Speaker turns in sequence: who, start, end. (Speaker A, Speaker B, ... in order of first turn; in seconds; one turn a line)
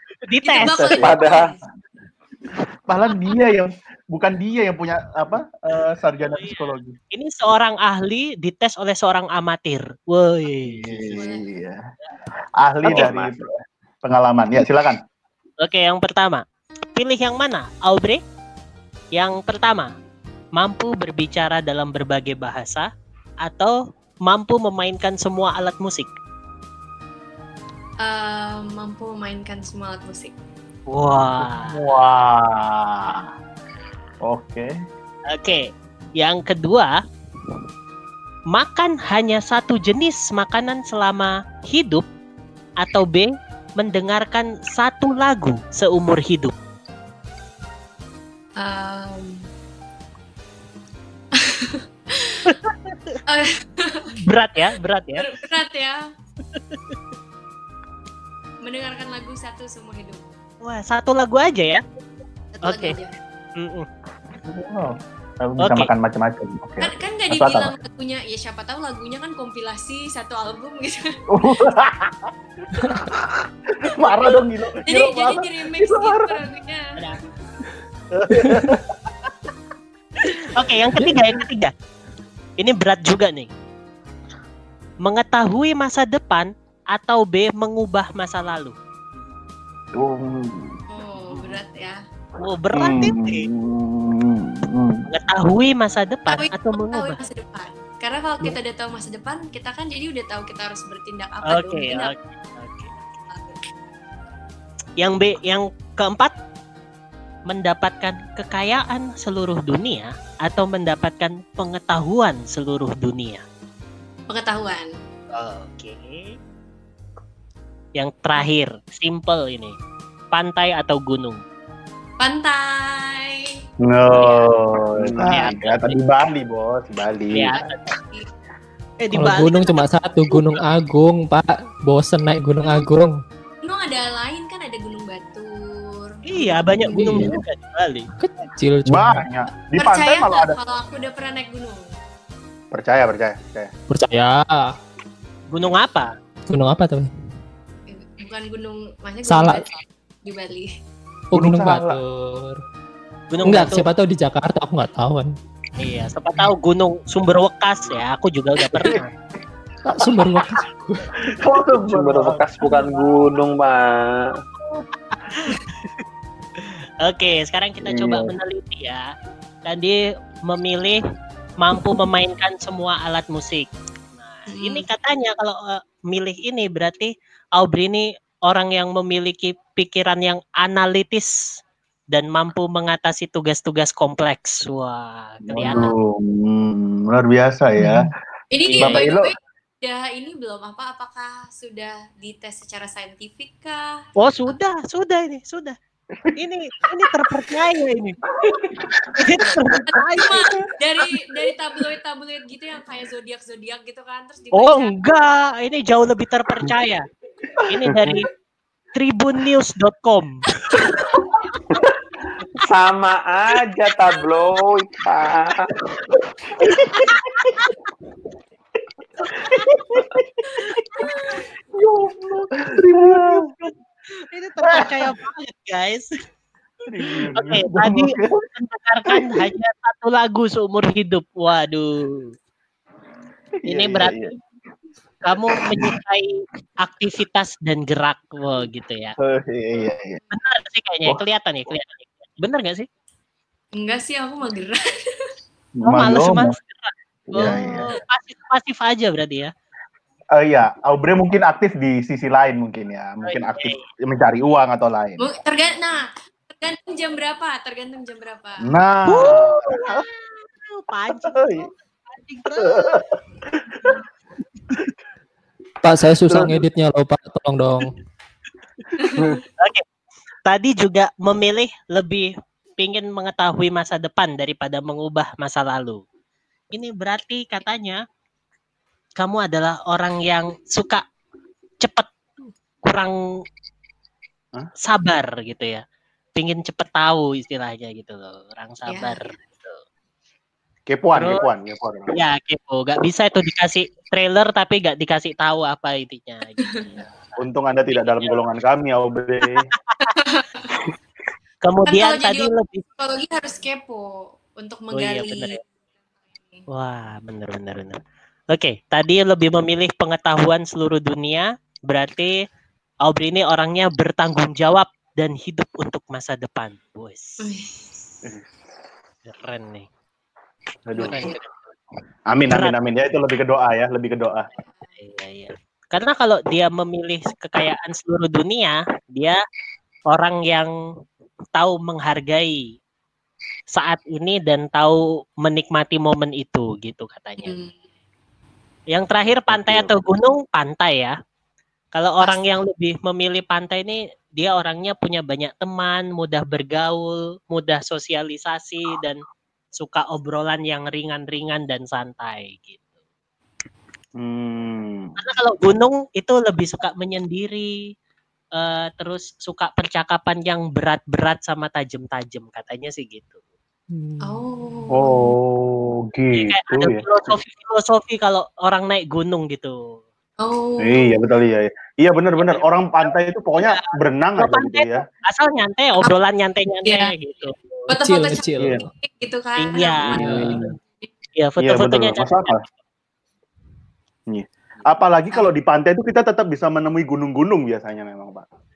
Speaker A: 0.3-1.3
Speaker B: 0.5-1.6
Speaker C: 0.6-1.6
Speaker D: 2.9-7.0
Speaker A: 6.2-11.3
Speaker D: 10.7-11.8
Speaker B: 10.8-11.4
Speaker D: 12.6-13.5
Speaker C: 12.8-13.3
Speaker D: 14.0-15.0
Speaker A: 15.6-16.4
Speaker A: 16.9-18.2
Speaker A: 19.1-19.9
Speaker A: 20.5-22.9
Speaker A: 23.4-26.1
Speaker B: 28.0-30.3
Speaker A: 30.9-32.0
Speaker D: 31.4-33.3
Speaker D: 34.2-34.7
Speaker A: 35.3-36.9
Speaker A: 38.5-42.0
Speaker A: 42.8-46.5
Speaker B: 48.6-49.4
Speaker B: 51.3-52.6
Speaker A: 52.5-53.2
Speaker B: 53.3-54.3
Speaker A: 54.2-55.3
Speaker B: 55.2-56.0
Speaker A: 56.5-57.0
Speaker B: 58.6-60.2
Speaker A: 60.6-61.8
Speaker B: 62.5-63.2
Speaker A: 62.6-63.0
Speaker A: 63.6-63.9
Speaker D: 64.4-67.7
Speaker A: 65.6-65.9
Speaker B: 66.8-71.2
Speaker D: 71.3-72.3
Speaker D: 72.8-76.5
Speaker B: 74.8-77.0
Speaker D: 78.1-78.9
Speaker E: 78.4-78.8
Speaker A: 80.3-81.7
Speaker A: 82.6-83.5
Speaker A: 85.0-88.7
Speaker D: 90.0-90.8
Speaker B: 90.9-92.0
Speaker A: 91.2-91.6
Speaker A: 92.4-93.5
Speaker D: 92.7-95.0
Speaker A: 95.1-97.2
Speaker B: 96.3-102.1
Speaker A: 101.5-103.0
Speaker B: 103.3-103.6
Speaker A: 105.0-106.3
Speaker A: 107.5-113.4
Speaker B: 114.3-114.9
Speaker A: 115.3-116.3
Speaker A: 118.0-119.8
Speaker A: 120.3-121.4
Speaker B: 122.2-123.6
Speaker D: 123.8-127.5
Speaker B: 124.1-124.5
Speaker C: 124.9-125.5
Speaker A: 125.2-126.0
Speaker A: 127.3-127.8
Speaker B: 127.5-128.3
Speaker A: 129.0-129.9
Speaker E: 129.1-133.2
Speaker B: 133.6-137.1
Speaker A: 136.3-138.1
Speaker E: 136.9-137.4
Speaker D: 137.0-137.3
Speaker E: 138.2-139.2
Speaker D: 138.9-140.6
Speaker B: 139.8-141.9
Speaker D: 142.7-143.7
Speaker E: 143.9-144.8
Speaker A: 145.5-146.1
Speaker E: 146.5-147.1
Speaker B: 147.9-150.7
Speaker E: 149.3-149.6
Speaker E: 151.3-152.6
Speaker D: 151.3-152.0
Speaker A: 153.3-153.9
Speaker E: 153.4-155.3
Speaker A: 155.8-159.1
Speaker E: 159.8-161.1
Speaker D: 161.3-163.3
Speaker C: 161.5-164.4
Speaker A: 164.7-165.6
Speaker A: 166.6-169.1
Speaker C: 167.9-168.3
Speaker A: 169.6-171.0
Speaker A: 171.6-181.6
Speaker B: 174.5-174.9
Speaker A: 182.1-185.9
Speaker D: 185.5-188.1
Speaker E: 187.8-188.1
Speaker B: 188.5-194.0
Speaker A: 188.6-189.0
Speaker D: 188.8-189.3
Speaker A: 194.2-195.8
Speaker A: 196.3-198.3
Speaker A: 199.2-200.5
Speaker B: 199.9-204.9
Speaker A: 204.5-207.0
Speaker A: 207.6-208.3
Speaker A: 208.9-210.5
Speaker C: 212.6-215.7
Speaker D: 215.9-217.5
Speaker A: 217.4-217.7
Speaker D: 219.3-221.1
Speaker B: 220.6-221.4
Speaker D: 221.8-223.5
Speaker C: 222.7-223.4
Speaker A: 224.3-226.1
Speaker D: 224.6-225.1
Speaker D: 226.9-228.5
Speaker A: 227.3-232.3
Speaker D: 229.1-229.4
Speaker D: 233.6-234.3
Speaker A: 233.6-234.3
Speaker A: 235.2-239.1
Speaker D: 235.6-235.9
Speaker D: 239.2-240.2
Speaker A: 240.3-242.9
Speaker B: 243.8-244.8
Speaker D: 245.8-246.5
Speaker A: 245.8-249.5
Speaker D: 247.3-247.9
Speaker B: 247.4-247.9
Speaker D: 250.4-255.3
Speaker A: 253.2-253.8
Speaker B: 255.2-258.7
Speaker D: 258.6-260.0
Speaker A: 259.1-263.0
Speaker D: 261.2-261.7
Speaker D: 262.6-263.9
Speaker E: 265.8-267.9
Speaker B: 269.0-269.4
Speaker C: 269.1-269.4
Speaker A: 269.6-269.8
Speaker A: 270.4-276.0
Speaker A: 276.7-278.0
Speaker A: 279.2-281.0
Speaker A: 281.8-282.1
Speaker A: 282.8-283.1
Speaker A: 284.8-285.8
Speaker A: 286.3-289.8
Speaker B: 288.9-289.3
Speaker D: 290.9-292.1
Speaker A: 291.1-291.5
Speaker A: 292.1-297.4
Speaker B: 296.6-297.0
Speaker D: 297.4-299.7
Speaker A: 298.0-298.4
Speaker A: 299.9-300.1
Speaker B: 300.1-300.8
Speaker A: 301.6-302.8
Speaker B: 301.9-305.7
Speaker A: 304.9-305.6
Speaker A: 306.7-308.0
Speaker A: 308.5-312.3
Speaker A: 313.1-317.5
Speaker B: 317.4-317.8
Speaker A: 319.2-319.9
Speaker D: 320.9-321.3
Speaker A: 320.9-321.5
Speaker D: 322.3-324.5
Speaker A: 325.0-329.4
Speaker A: 330.1-330.7
Speaker A: 331.5-332.7
Speaker A: 333.7-337.6
Speaker B: 337.4-337.7
Speaker A: 338.9-341.1
Speaker A: 341.9-349.2
Speaker A: 349.8-352.9
Speaker D: 354.2-355.1
Speaker A: 355.2-357.8
Speaker A: 358.6-363.4
Speaker E: 363.9-364.4
Speaker B: 364.2-365.3
Speaker D: 364.9-367.3
Speaker A: 366.3-370.0
Speaker B: 370.4-371.2
Speaker D: 370.8-375.0
Speaker A: 372.4-372.6
Speaker A: 373.6-377.5
Speaker B: 376.8-377.1
Speaker B: 377.9-381.1
Speaker E: 377.9-378.8
Speaker D: 378.6-378.9
Speaker A: 379.6-380.7
Speaker D: 380.1-380.7
Speaker E: 380.2-380.6
Speaker A: 381.4-382.7
Speaker D: 381.6-382.6
Speaker D: 384.3-388.5